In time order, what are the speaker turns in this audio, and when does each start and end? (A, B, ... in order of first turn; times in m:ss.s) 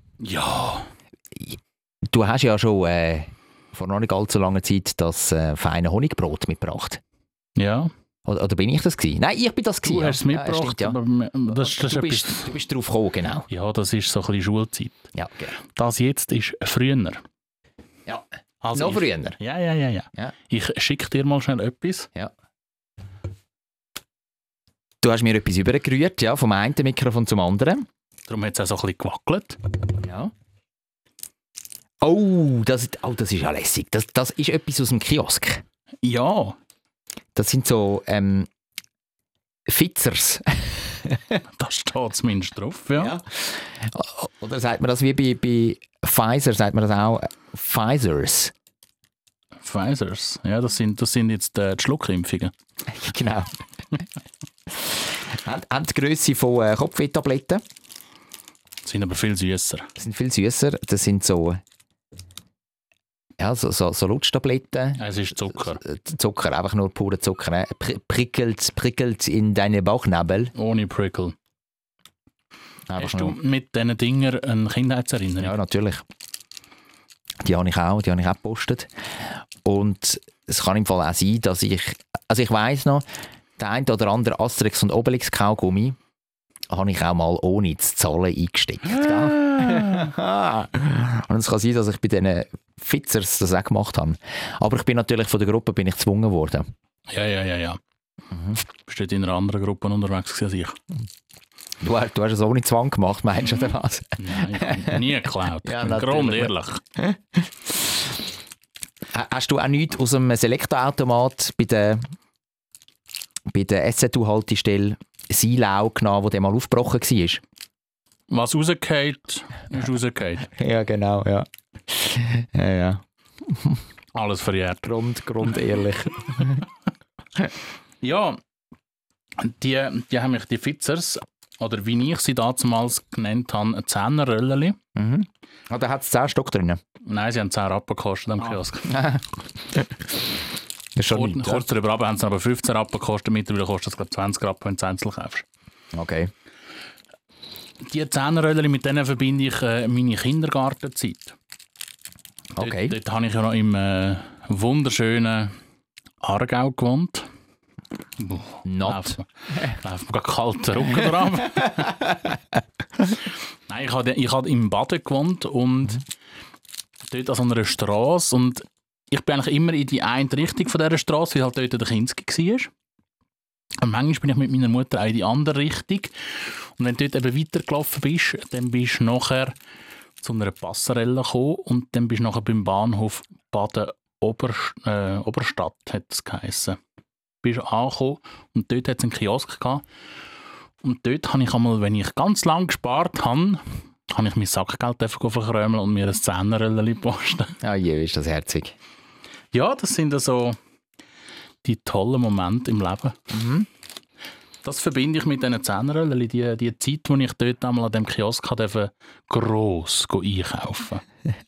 0:00.2-0:00.9 A
0:01.4-0:07.0 B
0:07.6-0:07.9 A
0:08.2-0:13.5 B
0:09.8-0:12.5 A
0:13.5-0:15.1 A
0:15.1-0:15.5 B
0:15.7-0:17.2 A
0:18.0-0:19.4 B
0:18.6-0:22.1 A
0:25.0-0:27.9 B
0:28.3-0:29.6 A
0:30.0-0:30.3 B
0:32.0-0:35.6 B
0:36.0-0:36.6 A
0:37.4-0:38.5 B
0:39.7-0:41.4 B
0:41.6-0:43.1 A
0:43.0-0:48.5 B
0:49.6-0:52.5 A
0:52.9-0:53.5 B
0:54.7-0:57.6 B
0:58.8-0:59.9 A
1:00.0-1:01.6 B
1:03.4-1:10.5 B
1:05.0-1:05.8 A
1:10.5-1:11.3 A
1:12.9-1:13.4 B
1:13.0-1:15.5 A
1:15.4-1:16.0 B
1:17.4-1:18.9 B
1:19.6-1:23.0 B
1:23.6-1:26.0 B
1:26.7-1:36.7 B
1:29.3-1:30.1 A
1:37.1-1:37.8 A
1:38.3-1:38.6 B
1:38.8-1:40.8 A
1:41.8-1:45.0 B
1:44.2-1:46.8 A
1:45.6-1:47.8 B
1:49.1-1:52.1 B
1:53.5-1:57.4 B
1:58.3-2:00.5 A
2:00.5-2:03.8 B
2:04.1-2:04.9 A
2:04.8-2:06.6 B
2:08.0-2:08.4 A
2:09.4-2:14.8 A
2:15.0-2:16.8 B
2:17.0-2:18.9 A
2:18.4-2:19.9 B
2:21.0-2:21.7 B
2:21.1-2:25.4 A
2:25.9-2:26.3 B
2:27.8-2:31.4 A
2:32.6-2:32.9 B
2:32.6-2:35.5 A
2:36.2-2:37.3 A
2:38.2-2:42.0 A
2:38.6-2:39.2 B
2:41.6-2:42.4 B
2:43.7-2:46.0 A
2:47.1-2:52.7 A
2:53.8-2:56.1 A
2:56.8-2:59.5 A
3:00.2-3:06.8 A
3:07.4-3:09.8 A
3:10.8-3:17.5 A
3:17.6-3:18.8 B
3:19.5-3:20.6 A
3:21.6-3:23.2 A
3:23.3-3:23.7 B
3:24.6-3:31.0 A